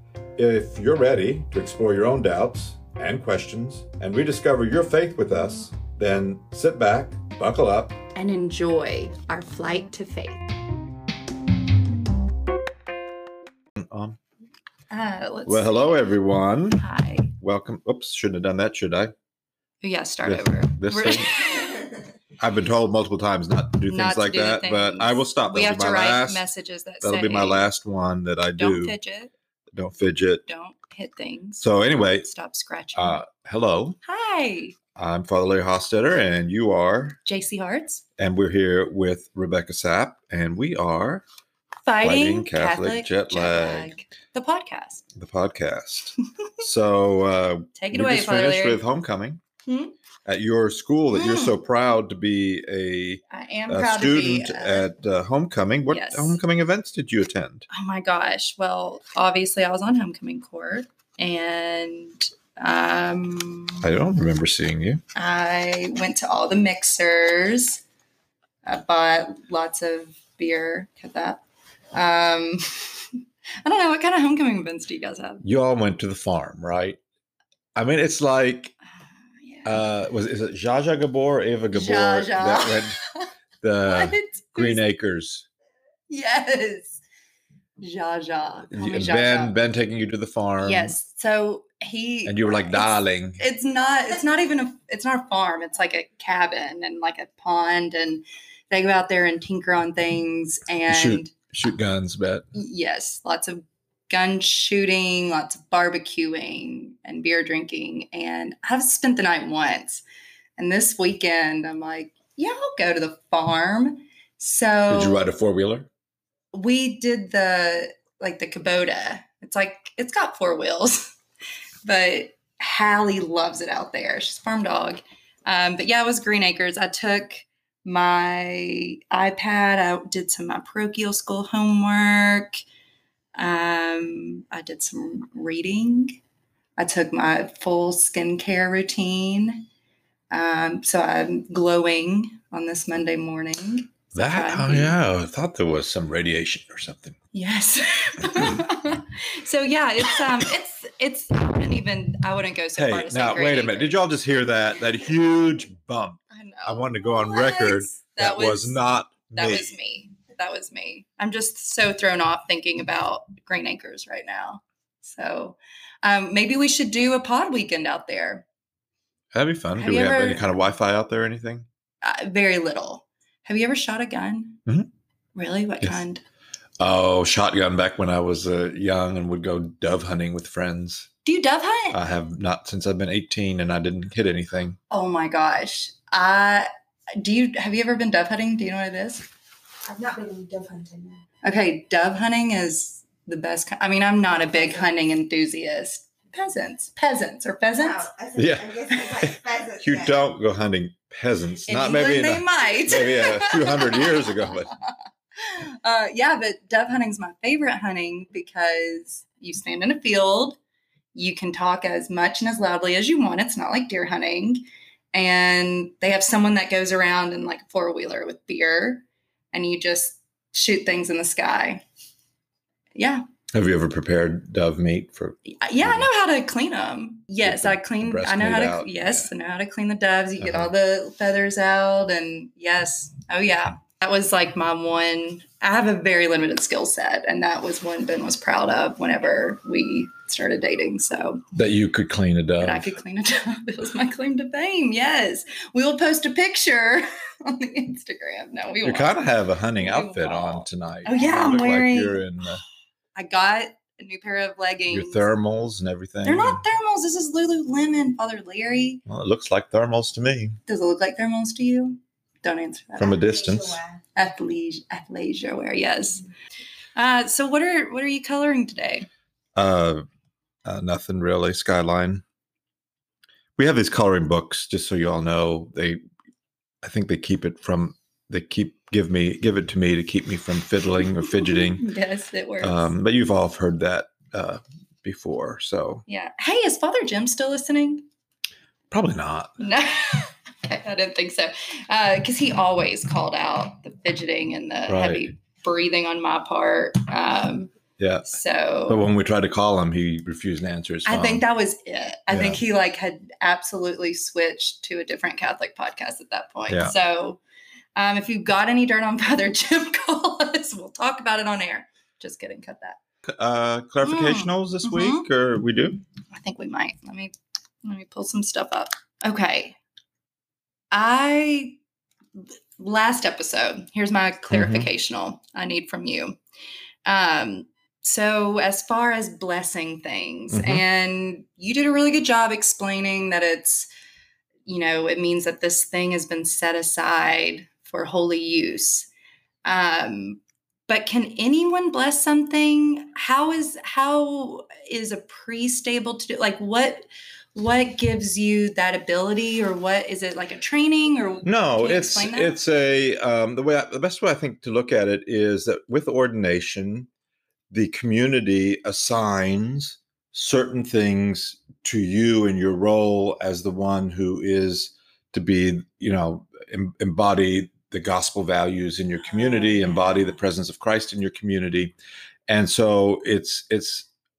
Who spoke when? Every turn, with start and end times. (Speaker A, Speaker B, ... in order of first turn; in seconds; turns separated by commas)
Speaker A: 0.4-8.0, Speaker B: 8.2-10.5, Speaker A: 13.8-14.2, Speaker B: 14.9-15.9, Speaker A: 15.5-16.8, Speaker B: 16.8-17.3, Speaker A: 17.4-19.1, Speaker B: 19.8-21.9, Speaker A: 20.2-21.4, Speaker A: 22.4-26.4, Speaker B: 23.9-27.7, Speaker A: 27.0-28.9, Speaker B: 28.6-29.3, Speaker A: 29.7-30.4, Speaker B: 30.5-33.2, Speaker A: 31.6-32.3, Speaker A: 33.0-34.0, Speaker B: 34.0-34.8, Speaker A: 35.0-37.2, Speaker B: 37.3-38.0, Speaker A: 38.2-41.2, Speaker B: 41.9-45.0, Speaker A: 42.0-43.9, Speaker A: 45.1-49.4, Speaker B: 47.8-48.8, Speaker B: 49.7-50.0, Speaker A: 50.2-57.7, Speaker B: 51.1-51.5, Speaker B: 53.3-54.9, Speaker B: 55.9-56.4, Speaker B: 57.7-63.8, Speaker A: 63.8-65.0, Speaker B: 65.2-67.8, Speaker B: 68.7-71.4, Speaker B: 71.9-73.0, Speaker B: 73.6-75.4, Speaker A: 75.4-77.0, Speaker A: 77.8-78.8, Speaker B: 79.4-79.8, Speaker A: 79.7-83.0, Speaker B: 81.7-83.3, Speaker A: 83.6-85.5, Speaker B: 83.9-84.8, Speaker B: 86.1-87.0, Speaker B: 87.8-89.6, Speaker A: 88.7-90.9, Speaker B: 90.6-101.3, Speaker A: 92.2-93.4, Speaker A: 100.9-102.5, Speaker B: 102.5-110.0, Speaker B: 110.6-115.3, Speaker A: 114.9-115.9, Speaker B: 116.5-121.1, Speaker B: 121.9-132.6, Speaker B: 133.4-136.2, Speaker B: 136.8-139.7, Speaker B: 140.3-145.0, Speaker A: 144.2-147.2, Speaker B: 147.3-154.0, Speaker A: 152.8-159.7, Speaker B: 156.3-168.4, Speaker A: 169.3-171.7, Speaker B: 169.8-170.5, Speaker B: 172.0-174.6, Speaker B: 175.3-176.2, Speaker A: 176.8-181.1, Speaker B: 181.2-182.0, Speaker A: 181.9-184.8, Speaker B: 184.9-189.3, Speaker C: 189.9-191.2, Speaker B: 191.4-198.1, Speaker C: 197.8-200.1, Speaker A: 198.3-204.7, Speaker B: 201.7-204.6, Speaker B: 205.4-210.6, Speaker B: 211.2-221.8, Speaker B: 223.0-223.2, Speaker A: 223.5-226.1, Speaker B: 225.5-241.4, Speaker A: 227.4-229.3, Speaker A: 230.4-230.7, Speaker A: 241.6-243.0, Speaker B: 242.6-249.2, Speaker A: 248.8-252.6, Speaker B: 249.8-252.2, Speaker B: 253.2-255.2, Speaker A: 254.9-256.6, Speaker B: 256.2-259.0, Speaker A: 259.1-260.6, Speaker B: 260.7-263.2, Speaker A: 263.0-263.8, Speaker C: 263.6-263.9, Speaker B: 264.1-266.2, Speaker B: 266.9-269.1, Speaker A: 269.6-270.1, Speaker A: 270.6-272.2, Speaker A: 273.6-276.0, Speaker A: 276.8-281.9, Speaker B: 281.3-282.9, Speaker A: 282.6-286.1, Speaker B: 286.1-288.1, Speaker A: 288.9-289.6, Speaker B: 289.6-297.7, Speaker A: 294.9-295.3, Speaker A: 298.0-298.4, Speaker B: 298.3-299.0, Speaker A: 298.9-301.4, Speaker B: 301.1-307.4, Speaker A: 302.3-302.6, Speaker A: 306.7-306.9, Speaker B: 308.0-313.0, Speaker A: 313.3-316.0, Speaker B: 314.0-315.2, Speaker B: 316.3-319.8, Speaker B: 320.9-321.8, Speaker B: 322.8-326.4, Speaker A: 324.5-324.9, Speaker B: 327.1-333.9, Speaker A: 330.5-330.8, Speaker B: 334.7-339.1, Speaker B: 339.6-352.6, Speaker A: 351.4-357.1, Speaker A: 357.7-371.9, Speaker A: 372.5-374.1